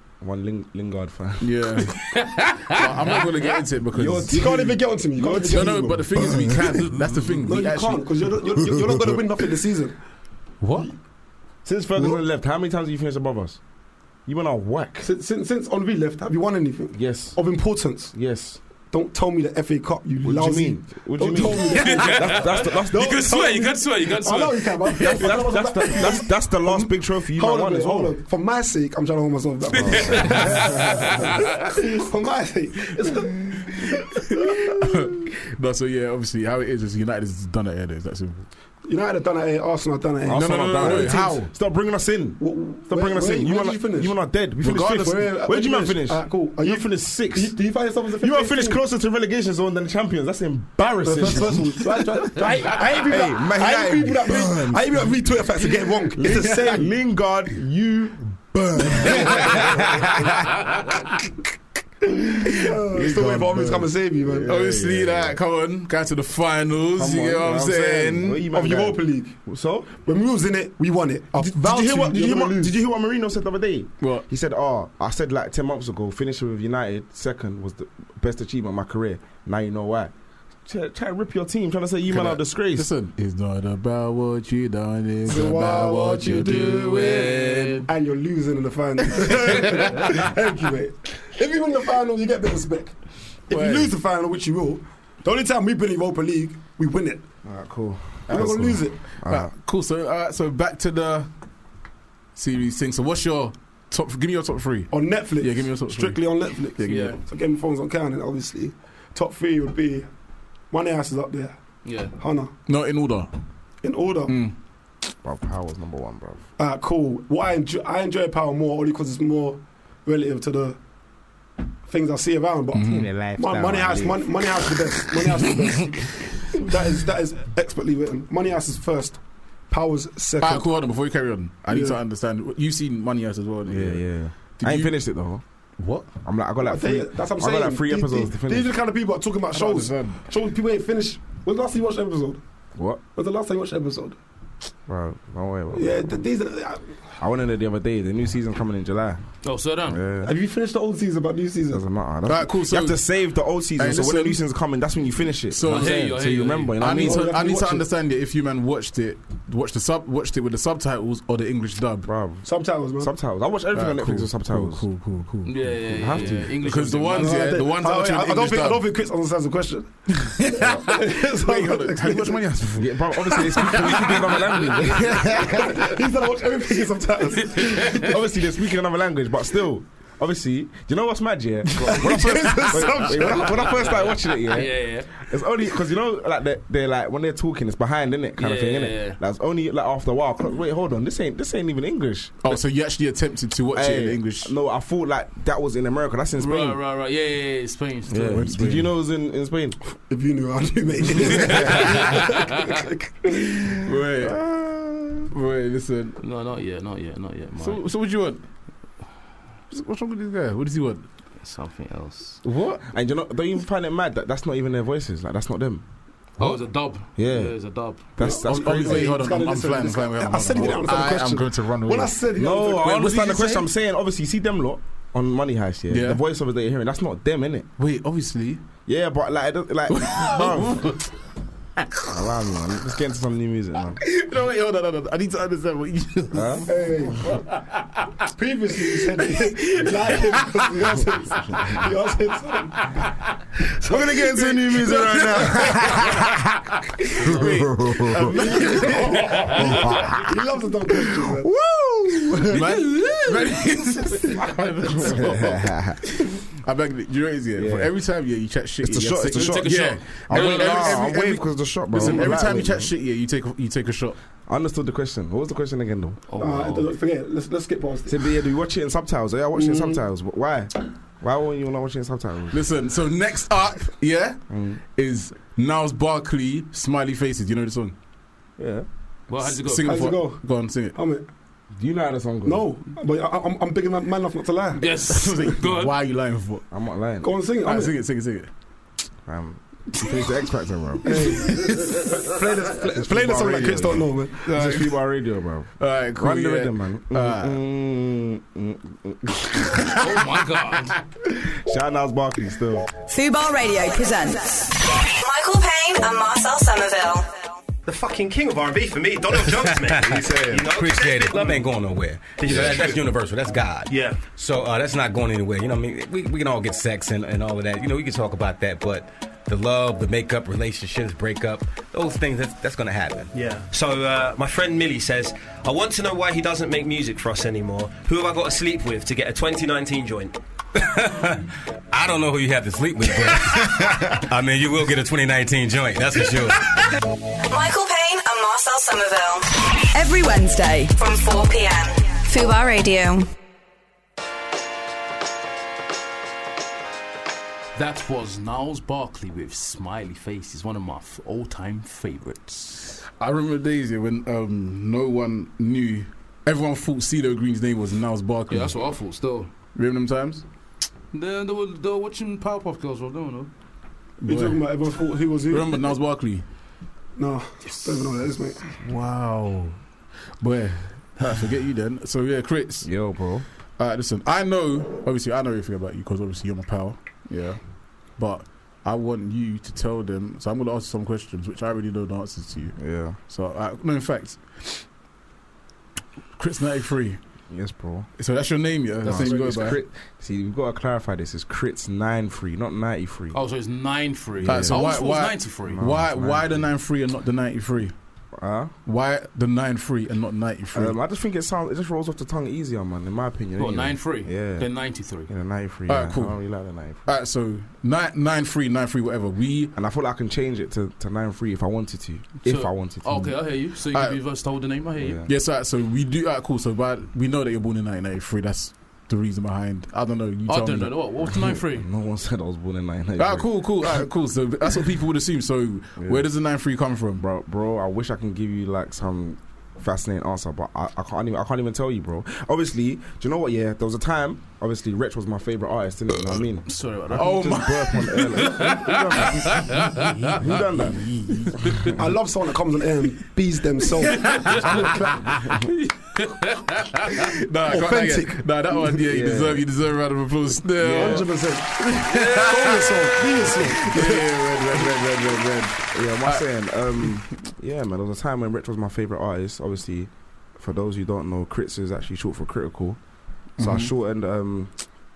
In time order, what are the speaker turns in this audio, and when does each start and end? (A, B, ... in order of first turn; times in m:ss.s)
0:00.2-0:01.7 A
0:01.4-0:02.0 B
0:02.1-0:03.3 C
0:02.7-0:08.0 B
0:03.9-0:04.6 A
0:04.0-0:06.3 D
0:05.2-0:06.6 A
0:07.4-0:10.0 D
0:10.6-0:10.9 C
0:11.6-0:13.6 A
0:14.2-0:15.1 A
0:15.0-0:18.1 D
0:16.9-0:17.4 A
0:18.1-0:18.6 A
0:18.9-0:34.8 D
0:20.2-0:23.2 A
0:21.7-0:25.0 C
0:25.0-0:28.1 A
0:29.7-0:31.7 C
0:29.7-0:30.7 A
0:34.5-0:38.4 B
0:38.9-0:41.3 D
0:40.2-0:47.6 A
0:40.3-0:41.5 B
0:42.4-0:44.1 D
0:44.6-0:45.3 B
0:44.8-0:48.8 D
0:48.2-0:52.0 A
0:51.0-0:56.9 D
0:52.7-0:55.0 A
0:56.1-1:00.3 A
0:59.0-1:01.1 B
1:02.1-1:04.5 D
1:02.9-1:05.4 A
1:04.4-1:08.4 B
1:06.9-1:10.0 A
1:08.5-1:09.4 D
1:10.0-1:12.8 D
1:11.4-1:20.1 A
1:20.6-1:22.9 A
1:22.1-1:27.0 B
1:25.2-1:32.9 D
1:26.2-1:27.9 C
1:33.5-1:37.2 D
1:33.5-1:33.9 B
1:37.4-1:39.5 A
1:38.3-1:41.3 B
1:38.3-1:39.0 D
1:42.3-1:46.2 B
1:44.9-1:50.1 D
1:46.8-1:47.2 B
1:46.9-1:47.2 C
1:50.7-1:51.6 D
1:51.8-1:52.1 C
1:52.1-1:52.5 D
1:52.7-1:53.3 B
1:53.8-1:54.3 D
1:54.3-1:54.5 B
1:55.2-1:56.4 A
1:56.6-2:00.8 D
2:01.9-2:10.7 D
2:02.7-2:03.1 B
2:02.9-2:04.4 A
2:10.4-2:14.1 B
2:11.7-2:12.0 D
2:13.6-2:15.4 A
2:14.6-2:15.0 B
2:15.8-2:16.1 B
2:16.2-2:18.7 A
2:16.6-2:22.4 D
2:19.5-2:20.2 B
2:22.7-2:23.0 A
2:23.1-2:24.2 D
2:24.9-2:26.0 A
2:25.7-2:26.8 D
2:27.2-2:29.2 A
2:29.4-2:30.0 C
2:29.8-2:30.3 A
2:30.2-2:31.8 D
2:31.7-2:37.3 A
2:32.2-2:33.0 B
2:33.8-2:34.4 B
2:35.5-2:36.1 B
2:35.6-2:36.8 C
2:36.8-2:42.1 B
2:37.0-2:37.9 D
2:42.0-2:44.8 A
2:42.4-2:43.1 D
2:43.7-2:48.8 B
2:45.4-2:47.4 C
2:45.9-2:46.5 A
2:47.1-2:52.4 D
2:50.2-2:54.4 B
2:52.8-2:55.8 A
2:53.4-2:53.7 D
2:55.6-2:58.0 D
2:57.6-3:12.6 A
2:57.7-2:58.0 C
3:01.8-3:03.6 D
3:03.7-3:05.2 C
3:08.4-3:09.2 C
3:12.4-3:14.5 B
3:13.7-3:16.8 A
3:16.4-3:18.5 C
3:18.1-3:19.8 A
3:18.2-3:18.9 B
3:20.1-3:23.8 D
3:21.3-3:22.2 A
3:21.4-3:22.4 C
3:23.8-3:24.4 B
3:24.2-3:25.3 A
3:25.3-3:26.2 B
3:26.2-3:27.8 C
3:27.6-3:28.4 B
3:29.7-3:31.0 B
3:31.4-3:32.4 C
3:32.4-3:32.8 B
3:32.4-3:35.8 A
3:36.4-3:38.0 C
3:37.2-3:39.2 A
3:38.2-3:43.0 D
3:38.4-3:42.1 B
3:42.3-3:47.7 A
3:42.8-3:43.6 B
3:45.9-3:46.2 B
3:47.8-3:48.6 B
3:48.8-3:50.9 A
3:49.9-3:51.1 B
3:51.8-3:52.1 B
3:52.1-3:54.0 A
3:54.0-3:56.7 B
3:56.3-3:56.7 A
3:56.7-3:57.4 D
3:57.3-3:58.1 B
3:58.3-4:02.9 D
4:03.8-4:04.6 D
4:03.8-4:06.4 A
4:07.1-4:10.0 B
4:07.2-4:10.2 A
4:08.5-4:11.5 D
4:11.4-4:12.8 A
4:12.3-4:24.2 B
4:12.9-4:13.6 C
4:15.0-4:16.1 A
4:17.6-4:17.9 A
4:18.8-4:22.9 A
4:19.2-4:21.1 C
4:22.0-4:22.4 C
4:24.5-4:26.2 A
4:26.3-4:26.9 C
4:26.4-4:28.3 D
4:28.0-4:32.6 A
4:29.5-4:30.0 D
4:32.5-4:37.9 B
4:34.5-4:34.8 A
4:38.6-4:38.8 A
4:39.3-4:40.0 C
4:39.4-4:41.0 B
4:39.8-4:41.3 D
4:41.7-4:42.6 A
4:42.4-4:44.8 D
4:44.8-4:46.0 C
4:45.1-4:46.6 B
4:46.7-4:47.3 A
4:47.2-4:48.0 D
4:47.6-4:48.5 B
4:49.2-4:51.4 A
4:51.0-4:54.5 D
4:52.8-5:00.0 A
4:54.5-4:54.9 B
4:55.8-4:57.5 B
5:00.0-5:01.0 C
5:01.4-5:02.9 A
5:03.0-5:07.5 E
5:07.8-5:11.6 F
5:09.3-5:23.3 G
5:12.4-5:13.0 F
5:13.9-5:14.2 F
5:23.3-5:30.4 F
5:30.8-5:36.8 G
5:37.5-5:43.2 E
5:47.8-5:53.0 C
5:53.2-5:58.8 B
5:58.5-5:59.5 C
5:59.7-6:00.4 B
6:01.1-6:03.5 C
6:04.2-6:04.6 B
6:04.3-6:05.9 D
6:05.5-6:06.4 B
6:07.2-6:08.6 D
6:08.7-6:09.8 B
6:10.4-6:12.9 B
6:12.8-6:13.4 A
6:13.8-6:17.6 B
6:18.2-6:24.8 B
6:22.8-6:23.2 A
6:26.4-6:27.2 B
6:27.5-6:28.1 A
6:28.2-6:29.8 B
6:29.0-6:33.4 A
6:33.3-6:35.8 C
6:34.4-6:35.0 A
6:34.4-6:37.9 B
6:35.6-6:36.7 A
6:38.3-6:38.7 A
6:38.8-6:40.9 B
6:40.7-6:47.1 A
6:43.6-6:45.3 C
6:45.9-6:46.5 B
6:47.0-6:49.7 B
6:49.7-6:53.3 A
6:52.4-6:55.2 C
6:53.9-6:54.2 B
6:55.0-6:55.3 A
6:55.2-7:01.0 B
7:00.5-7:01.8 C
7:01.3-7:04.1 A
7:03.2-7:07.2 B
7:06.0-7:06.3 A
7:07.2-7:21.4 A
7:16.6-7:17.7 C
7:17.1-7:18.6 B
7:18.4-7:20.5 C
7:21.6-7:21.9 C
7:21.9-7:24.5 D
7:24.1-7:25.5 C
7:24.7-7:25.6 B
7:26.1-7:27.1 C
7:27.2-7:36.4 B
7:27.7-7:29.0 D
7:29.0-7:29.6 A
7:30.8-7:31.5 A
7:30.9-7:34.8 D
7:35.9-7:43.0 A
7:43.6-7:44.7 A
7:43.6-7:43.9 B